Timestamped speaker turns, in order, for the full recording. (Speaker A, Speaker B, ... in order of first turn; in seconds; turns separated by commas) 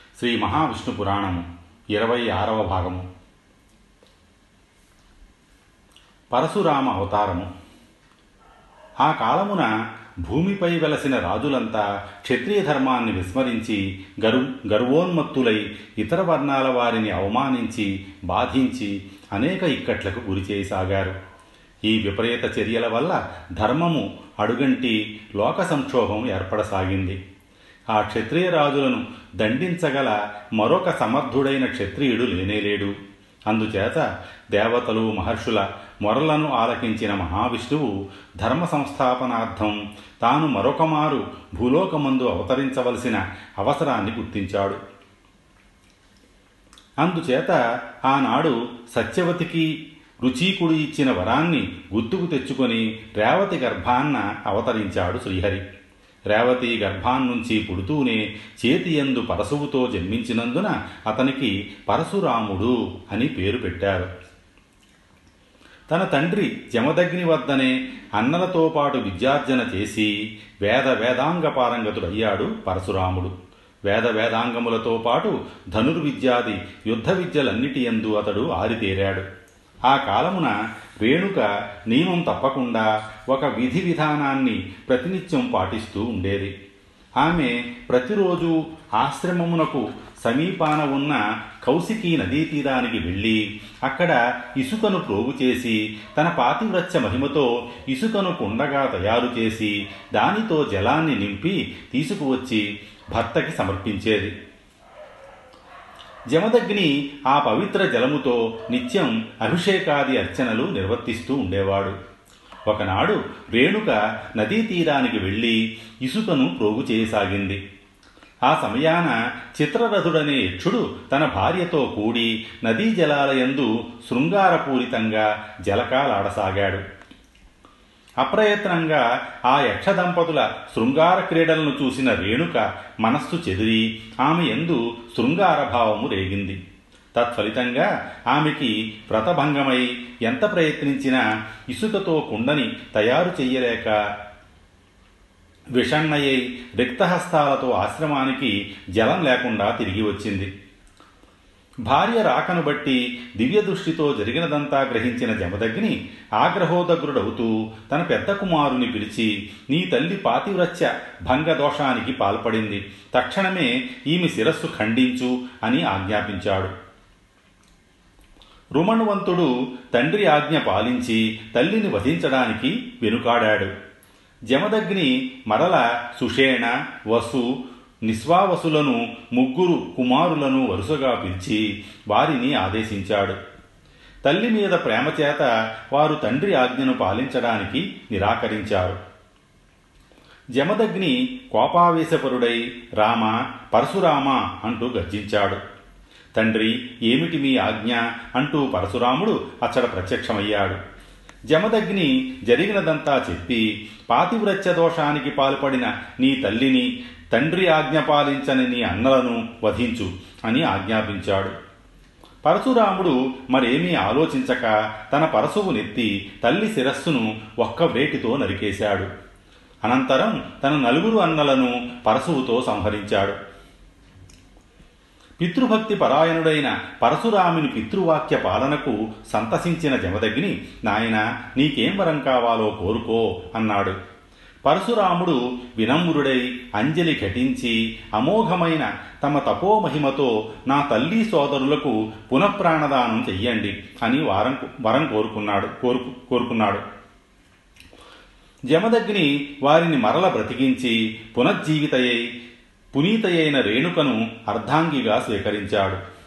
Speaker A: 0.2-3.1, Speaker A: 6.3-7.5, Speaker A: 9.0-9.7, Speaker A: 10.2-21.2, Speaker A: 21.9-27.2, Speaker A: 27.9-32.9, Speaker A: 33.5-44.8, Speaker A: 47.0-49.7, Speaker A: 50.2-55.6, Speaker A: 56.3-64.1, Speaker A: 65.9-70.1, Speaker A: 70.7-73.3, Speaker A: 73.9-79.2, Speaker A: 79.9-86.5, Speaker A: 87.2-104.3, Speaker A: 106.3-112.0, Speaker A: 112.7-117.6, Speaker A: 118.5-126.8, Speaker A: 128.2-136.6, Speaker A: 137.2-144.0, Speaker A: 145.8-150.5, Speaker A: 151.9-166.7, Speaker A: 168.8-173.7, Speaker A: 174.5-177.5, Speaker A: 178.1-183.4, Speaker A: 184.3-189.0, Speaker A: 190.6-195.6, Speaker A: 196.4-200.8, Speaker A: 201.5-211.5, Speaker A: 212.4-219.1, Speaker A: 219.8-223.4, Speaker A: 225.4-234.0, Speaker A: 234.7-246.8, Speaker A: 248.7-252.2, Speaker A: 252.9-256.0